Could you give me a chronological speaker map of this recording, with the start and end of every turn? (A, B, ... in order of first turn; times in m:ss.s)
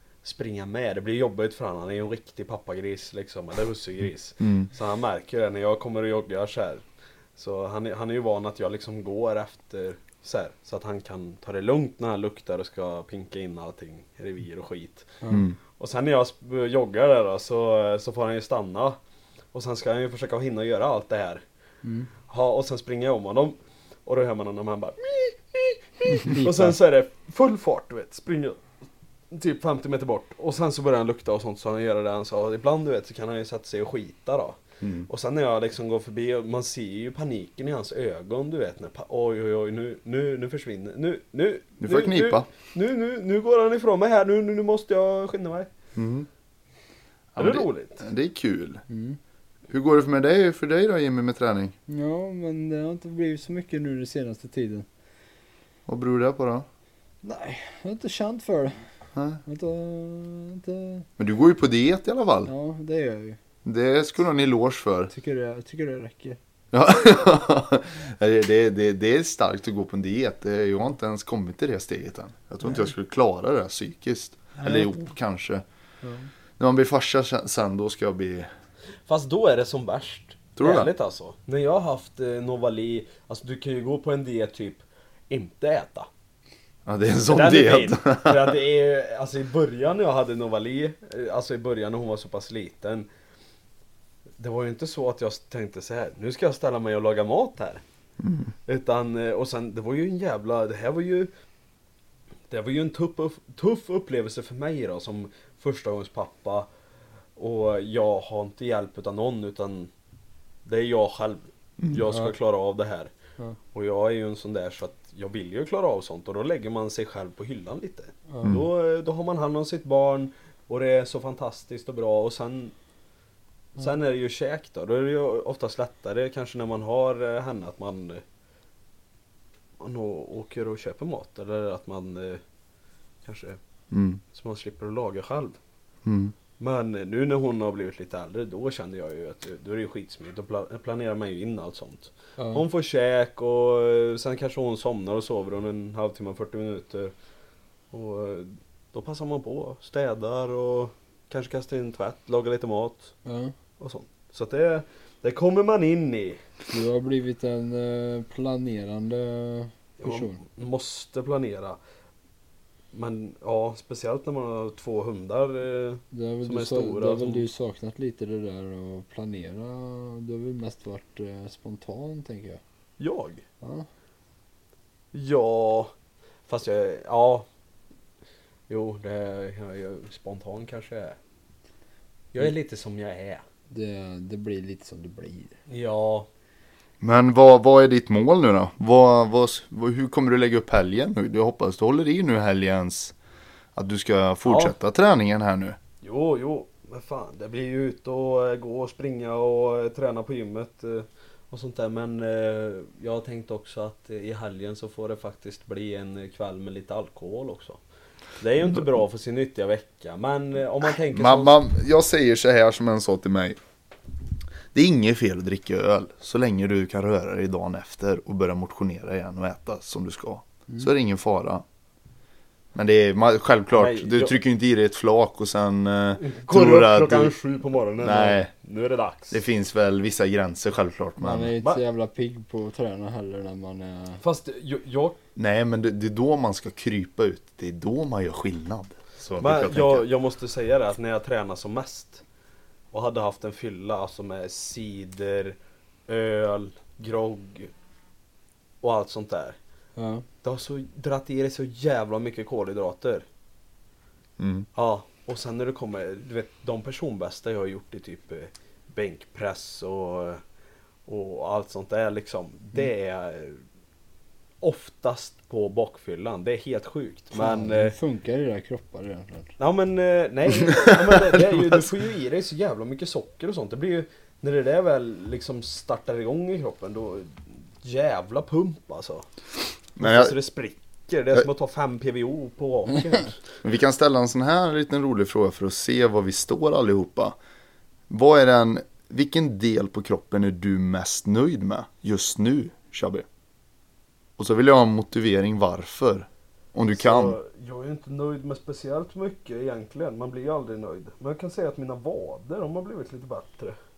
0:00.2-0:06.8 A
0:04.4-0:04.7 B
0:07.4-0:15.2 A
0:15.3-0:15.6 B
0:15.8-0:19.0 A
0:19.5-0:21.4 A
0:21.8-0:22.1 C
0:22.3-0:28.6 A
0:26.3-0:26.7 C
0:29.3-0:45.7 A
0:34.8-0:35.1 B
0:41.8-0:42.5 B
0:46.0-0:46.3 B
0:47.4-0:48.8 B
0:47.4-0:48.0 A
0:48.9-0:49.2 C
0:49.7-0:51.7 B
0:51.9-0:54.9 C
0:55.9-0:56.6 B
0:57.2-0:58.8 C
0:59.1-0:59.4 B
0:59.4-1:01.1 C
1:01.2-1:02.5 B
1:02.4-1:03.4 C
1:03.6-1:05.1 B
1:05.1-1:06.4 C
1:06.7-1:15.6 B
1:16.0-1:16.3 C
1:16.6-1:18.5 B
1:19.1-1:26.1 A
1:20.6-1:20.9 B
1:26.9-1:28.6 B
1:27.3-1:33.1 A
1:34.4-1:37.8 A
1:38.2-1:38.5 B
1:38.7-1:41.3 A
1:42.5-1:46.7 A
1:47.4-1:49.9 A
1:50.6-1:53.1 A
1:52.1-1:52.3 C
1:53.7-2:02.7 A
2:03.8-2:08.2 A
2:09.8-2:12.4 A
2:13.2-2:13.6 A
2:13.9-2:14.2 B
2:14.3-2:15.6 A
2:16.0-2:16.4 B
2:16.6-2:27.1 A
2:22.4-2:22.6 C
2:27.9-2:33.1 A
2:33.2-2:33.5 C
2:33.8-2:36.4 A
2:36.7-2:40.4 C
2:40.0-2:41.8 A
2:42.9-2:47.5 A
2:46.1-2:52.6 C
2:53.0-2:53.4 A
2:55.1-2:55.9 A
2:56.5-2:57.4 A
2:58.7-3:01.2 A
3:02.3-3:03.4 A
3:03.7-3:05.5 C
3:05.7-3:06.3 A
3:07.0-3:13.1 B
3:13.7-3:15.8 B
3:14.4-3:14.7 A
3:16.0-3:27.8 A
3:28.4-3:31.6 A
3:31.1-3:33.6 B
3:34.7-3:41.6 B
3:42.7-3:47.3 B
3:43.7-3:44.4 A
3:46.2-3:49.4 A
3:48.0-3:48.5 B
3:49.3-3:51.5 B
3:51.2-3:54.2 C
3:54.2-3:55.2 A
3:55.4-4:00.0 B
3:59.4-4:02.2 A
4:02.9-4:05.6 A
4:06.1-4:07.7 A
4:08.8-4:09.6 A
4:10.0-4:10.2 C
4:10.4-4:13.2 A
4:14.4-4:14.7 B
4:14.7-4:20.4 A
4:21.1-4:23.6 A
4:24.6-4:28.0 A
4:27.3-4:29.5 C
4:29.6-4:39.2 A
4:30.7-4:31.9 B
4:40.0-4:43.4 A
4:40.0-4:40.4 B
4:43.6-4:47.4 B
4:48.1-4:53.2 B
4:54.4-4:57.4 B
4:56.9-5:03.8 A